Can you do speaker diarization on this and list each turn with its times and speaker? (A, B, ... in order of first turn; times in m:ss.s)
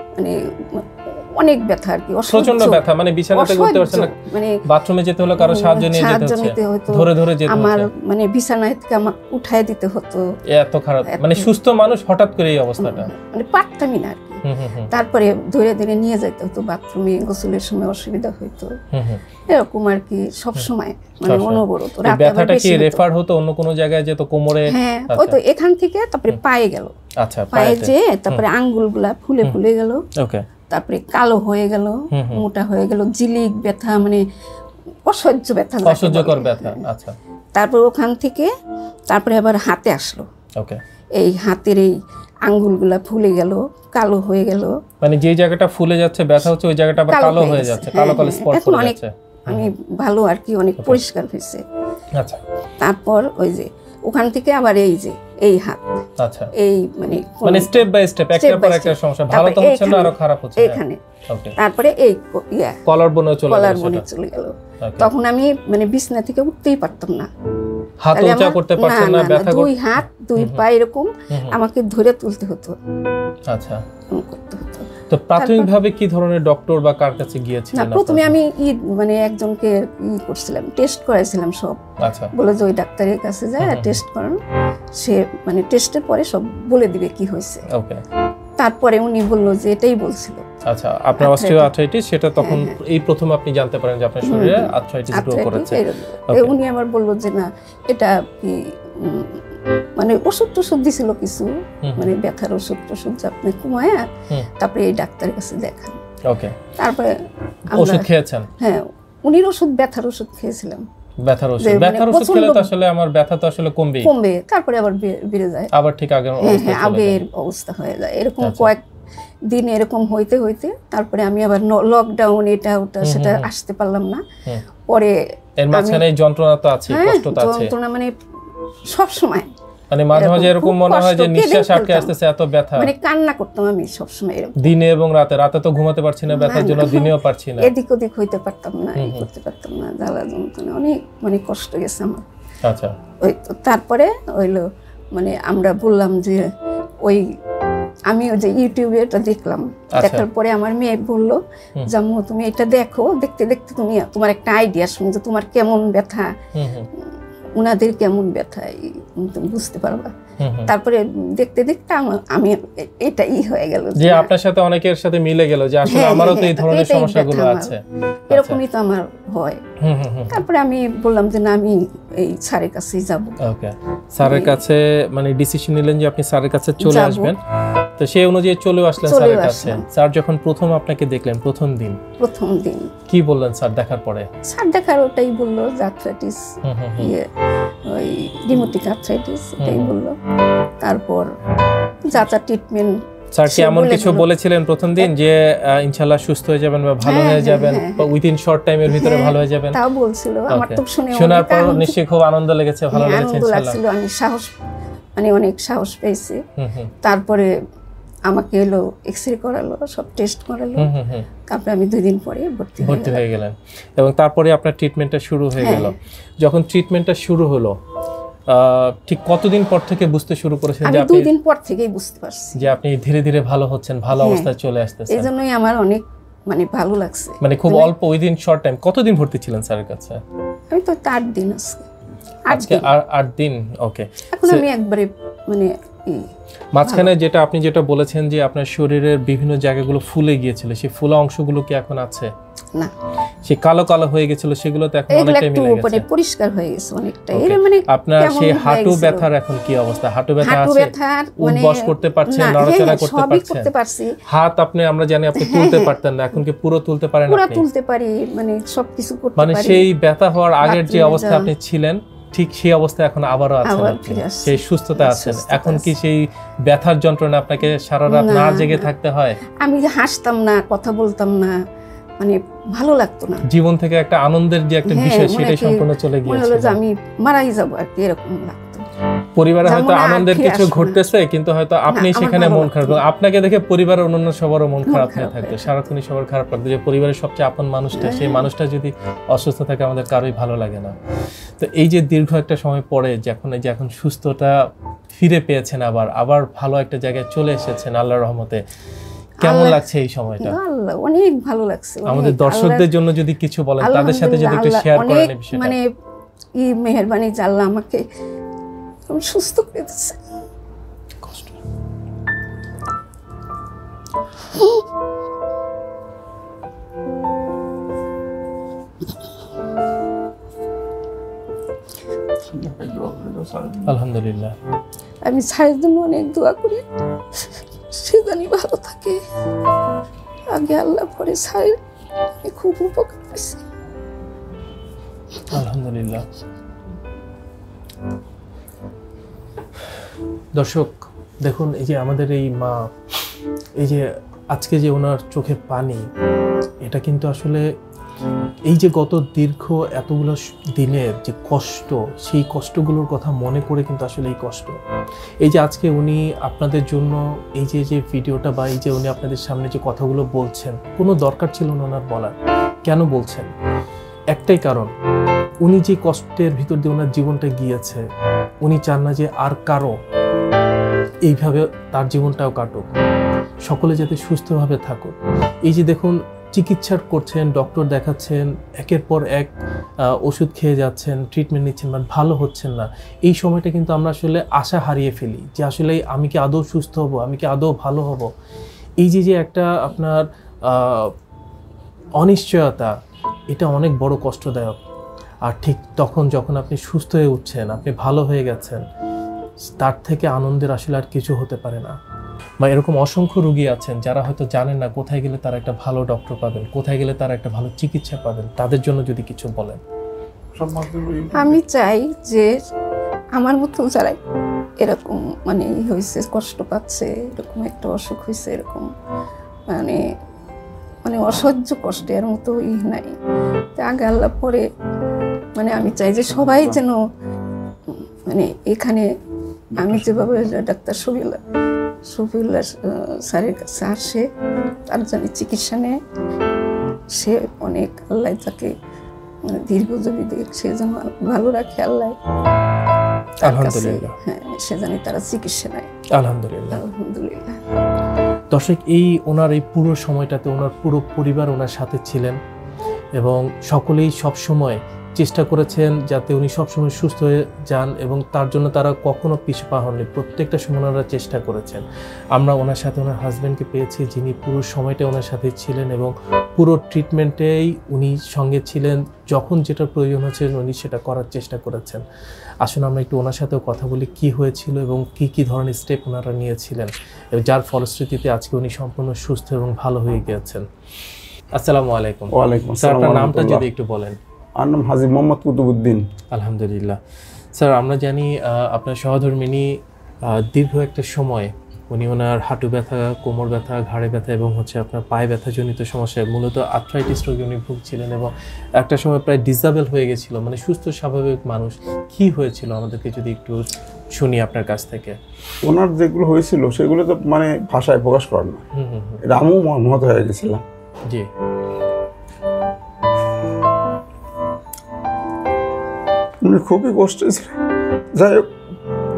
0:00.2-0:04.6 A
0:02.3-0:04.1 B
0:04.6-0:07.9 B
0:05.4-0:10.2 A
0:10.5-0:13.1 B
0:11.1-0:11.5 A
0:12.8-0:18.7 A
0:14.4-0:14.9 B
0:18.9-0:19.2 B
0:19.5-0:23.0 A
0:21.2-0:25.4 B
0:24.7-0:26.9 A
0:27.2-0:28.4 B
0:27.5-0:30.0 A
0:30.2-0:30.4 B
0:30.7-0:34.2 A
0:32.1-0:32.4 B
0:35.0-0:36.8 A
0:35.8-0:37.2 B
0:37.5-0:38.5 A
0:39.1-0:40.2 A
0:41.2-0:41.9 A
0:42.4-0:44.8 A
0:45.0-0:49.7 B
0:47.1-0:51.6 A
0:52.8-0:55.8 A
0:56.2-0:56.5 B
0:56.6-1:01.0 A
0:57.4-1:01.5 B
1:01.6-1:02.8 A
1:02.8-1:04.0 B
1:03.5-1:07.3 A
1:04.8-1:05.1 B
1:08.0-1:09.7 B
1:08.1-1:12.8 A
1:10.4-1:10.6 B
1:11.3-1:11.6 B
1:13.5-1:13.8 B
1:14.1-1:15.7 A
1:15.1-1:18.3 B
1:17.7-1:21.8 A
1:22.0-1:22.3 B
1:22.3-1:24.4 A
1:23.6-1:24.0 B
1:25.0-1:27.6 A
1:27.7-1:28.0 B
1:28.6-1:30.4 A
1:30.7-1:35.8 B
1:31.2-1:31.7 A
1:32.4-1:32.7 A
1:34.2-1:39.4 A
1:36.3-1:36.5 B
1:40.0-1:44.0 A
1:41.8-1:42.1 B
1:44.6-1:46.0 A
1:46.3-1:46.6 B
1:46.8-1:47.1 A
1:47.7-1:50.8 A
1:47.7-1:48.5 B
1:51.2-1:54.1 B
1:51.6-1:52.7 A
1:54.0-1:55.7 A
1:55.7-1:57.2 B
1:56.4-1:58.8 A
1:58.4-1:58.7 B
1:59.5-2:04.2 A
2:03.0-2:03.5 B
2:04.9-2:05.1 A
2:05.6-2:07.7 B
2:05.7-2:06.1 A
2:06.9-2:08.1 A
2:08.9-2:09.5 A
2:09.9-2:12.9 B
2:10.1-2:12.1 A
2:12.7-2:14.7 A
2:14.6-2:17.7 B
2:16.3-2:22.2 A
2:19.0-2:19.3 B
2:22.6-2:22.9 B
2:23.2-2:26.4 A
2:28.1-2:31.4 A
2:30.0-2:30.3 B
2:31.9-2:36.3 A
2:36.5-2:36.9 B
2:37.6-2:40.1 A
2:40.4-2:40.7 B
2:40.6-2:44.3 A
2:44.0-2:48.6 B
2:45.8-2:47.8 A
2:48.3-2:49.6 A
2:49.8-2:50.4 B
2:50.3-2:53.4 A
2:53.4-2:57.4 B
2:54.2-2:54.6 A
2:56.8-2:57.3 A
2:58.0-3:02.0 B
2:59.0-2:59.8 A
3:02.2-3:02.9 A
3:03.1-3:04.3 B
3:04.4-3:06.4 A
3:06.6-3:07.1 B
3:07.9-3:10.2 A
3:09.6-3:09.9 B
3:10.8-3:11.2 A
3:12.1-3:14.3 A
3:13.3-3:19.8 B
3:17.0-3:18.1 A
3:18.9-3:21.9 A
3:20.5-3:23.8 B
3:22.9-3:24.5 A
3:25.2-3:26.4 A
3:26.6-3:26.9 B
3:27.0-3:27.5 A
3:28.3-3:30.9 A
3:30.8-3:31.3 B
3:31.5-3:33.2 A
3:32.8-3:37.7 B
3:35.6-3:35.9 A
3:38.5-3:41.3 B
3:40.8-3:42.7 A
3:42.6-3:45.3 B
3:44.2-3:44.5 A
3:45.1-3:47.9 A
3:47.4-3:50.2 B
3:50.7-3:51.8 A
3:52.5-3:52.9 A
3:52.5-3:54.6 B
3:54.3-3:56.3 A
3:56.7-4:02.3 B
3:56.8-3:57.1 A
4:03.4-4:06.0 B
4:05.1-4:09.2 A
4:07.3-4:13.7 B
4:10.4-4:14.2 A
4:14.3-4:17.6 B
4:15.4-4:15.9 A
4:17.3-4:19.9 A
4:19.4-4:29.4 B
4:20.6-4:21.5 A
4:23.6-4:25.9 A
4:28.1-4:28.9 A
4:29.6-4:31.5 A
4:32.2-4:33.4 A
4:33.5-4:36.8 B
4:34.9-4:38.8 A
4:39.4-4:51.0 B
4:39.6-4:41.0 A
4:41.9-4:43.0 A
4:44.8-4:45.7 A
4:47.9-4:48.5 A
4:51.6-4:54.5 B
4:55.2-4:58.6 B
4:59.4-4:59.8 A
4:59.4-5:00.6 B
5:00.4-5:02.9 A
5:02.1-5:05.8 B
5:03.8-5:05.8 A
5:06.6-5:08.0 A
5:09.1-5:10.2 A
5:11.2-5:11.6 B
5:14.5-5:14.8 A
5:22.5-5:23.9 C
5:23.8-5:24.5 B
5:25.2-5:26.8 A
5:27.4-5:29.2 A
5:30.5-5:31.8 A
5:32.4-5:33.6 A
5:35.5-5:36.2 B
5:40.5-5:40.9 B
5:41.4-5:42.8 B
5:43.8-5:46.0 B
5:46.8-5:47.6 B
5:48.7-5:54.8 B
5:55.4-6:03.5 B
6:04.3-6:04.9 B
6:05.6-6:08.0 B
6:08.6-6:09.9 B
6:11.2-6:12.9 B
6:13.6-6:15.1 B
6:15.6-6:19.5 B
6:20.2-6:28.3 B
6:29.0-6:31.1 B
6:32.2-6:32.9 B
6:33.5-6:34.8 B
6:35.4-6:38.8 B
6:39.8-6:41.9 B
6:42.6-6:49.8 B
6:50.5-6:51.6 C
6:51.3-6:52.5 A
6:53.4-6:54.2 A
6:54.8-6:58.9 A
6:59.7-7:00.0 A
7:01.0-7:03.1 A
7:03.8-7:04.6 A
7:05.6-7:07.0 A
7:07.9-7:09.0 A
7:09.8-7:11.4 A
7:12.0-7:14.2 A
7:14.9-7:16.0 A
7:17.1-7:18.7 A
7:19.4-7:22.2 A
7:23.4-7:25.9 A
7:23.4-7:24.1 B
7:26.2-7:26.8 B
7:26.7-7:27.6 A
7:28.5-7:32.4 B
7:33.2-7:52.0 B
7:52.6-8:00.6 B
8:01.6-8:04.2 B
8:02.3-8:03.6 C
8:04.6-8:06.0 C
8:06.3-8:07.0 B
8:07.5-8:23.6 B
8:24.2-8:25.2 B
8:25.6-8:28.6 C
8:28.8-8:29.2 B
8:29.2-8:30.6 C
8:36.4-8:37.6 C
8:38.1-8:38.5 C